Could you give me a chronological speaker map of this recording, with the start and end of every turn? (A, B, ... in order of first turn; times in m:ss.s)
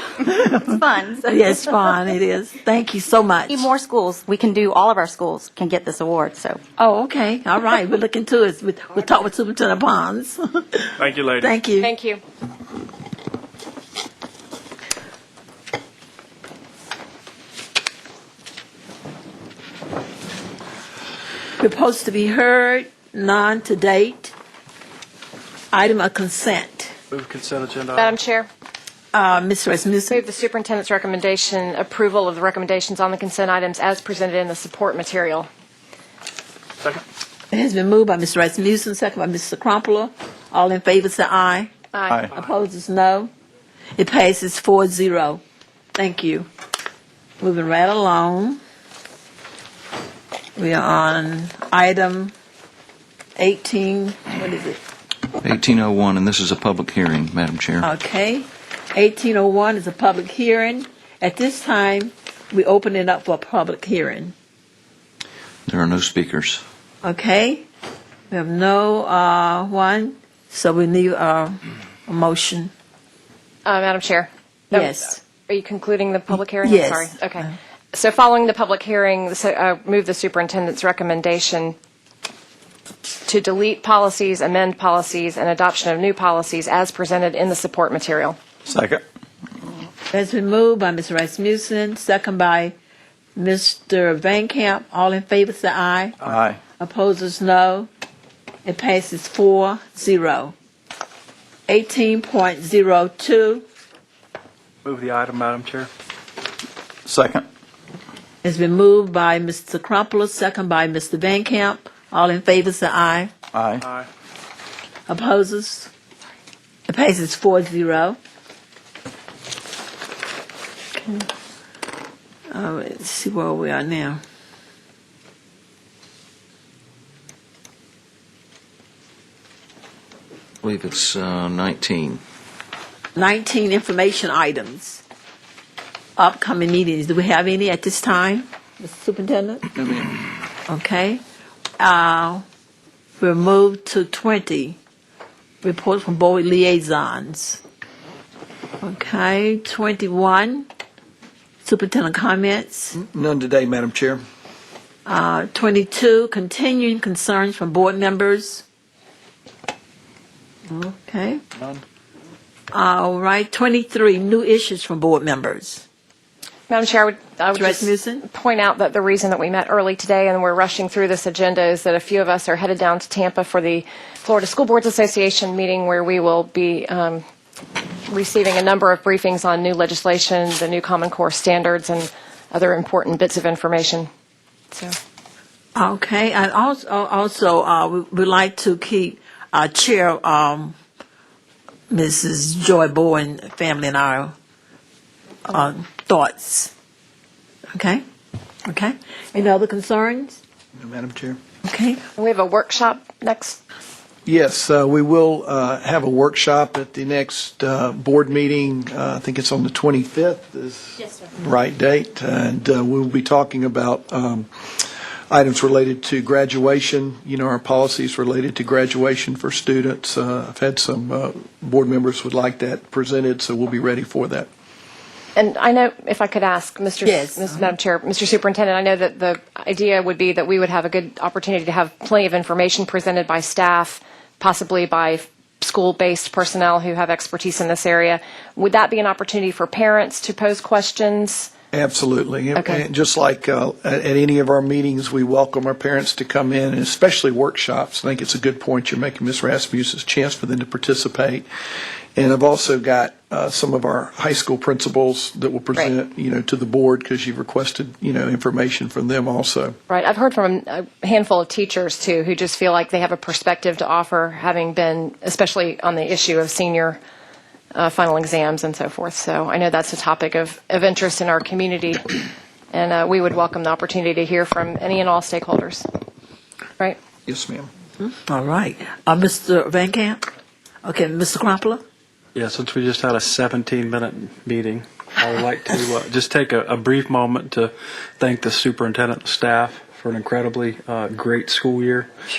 0:00.2-0:01.4 A
0:00.2-0:03.7 B
0:03.5-0:06.6 A
0:06.8-0:11.9 B
0:11.0-0:11.4 C
0:11.8-0:12.2 D
0:21.6-0:24.3 B
0:25.7-0:27.0 B
0:27.1-0:28.2 C
0:28.0-0:28.5 D
0:29.1-0:30.2 B
0:30.1-0:35.5 D
0:37.5-0:41.7 B
0:41.9-0:42.3 D
0:42.2-0:43.3 B
0:44.0-0:45.4 B
0:46.0-0:46.5 B
0:47.4-0:48.6 B
0:50.6-0:52.3 B
0:53.4-0:54.8 B
0:55.4-0:57.9 E
0:57.8-1:04.3 B
1:05.7-1:06.6 E
1:07.0-1:07.7 B
1:08.3-1:12.7 B
1:13.7-1:21.8 D
1:14.7-1:15.2 B
1:16.6-1:17.5 B
1:23.2-1:28.4 D
1:28.7-1:29.0 E
1:30.1-1:32.7 B
1:33.4-1:36.2 B
1:36.2-1:36.6 E
1:36.8-1:37.9 B
1:38.6-1:40.6 B
1:41.7-1:43.6 B
1:44.8-1:45.9 C
1:47.1-1:47.4 E
1:48.4-1:53.3 B
1:53.5-1:53.8 E
1:55.1-1:55.9 B
1:56.9-1:58.2 B
2:01.0-2:01.2 B
2:02.5-2:04.2 B
2:10.6-2:12.2 E
2:13.2-2:15.0 B
2:16.2-2:19.7 B
2:20.7-2:21.2 B
2:21.8-2:22.4 B
2:23.2-2:24.8 B
2:25.6-2:27.6 B
2:28.8-2:30.7 B
2:31.6-2:33.0 B
2:32.9-2:34.2 F
2:35.0-2:38.6 B
2:40.7-2:41.4 B
2:42.7-2:45.8 B
2:46.7-2:57.2 D
2:47.5-2:48.2 B
2:58.1-3:04.1 D
3:05.7-3:10.7 B
3:11.9-3:14.3 B
3:15.4-3:16.7 B
3:17.7-3:18.0 B
3:18.6-3:20.4 B
3:20.8-3:21.4 F
3:21.6-3:22.0 B
3:22.2-3:23.6 D
3:24.2-3:44.5 F
3:45.3-4:01.5 D
3:47.0-3:47.7 B
4:01.7-4:11.4 F
4:02.6-4:02.8 D
4:12.2-4:19.8 F
4:19.9-4:27.0 D
4:27.7-4:32.2 D
4:32.7-4:35.8 D
4:37.2-4:37.7 F
4:38.0-4:40.2 B
4:40.8-4:41.8 B
4:42.4-4:52.1 C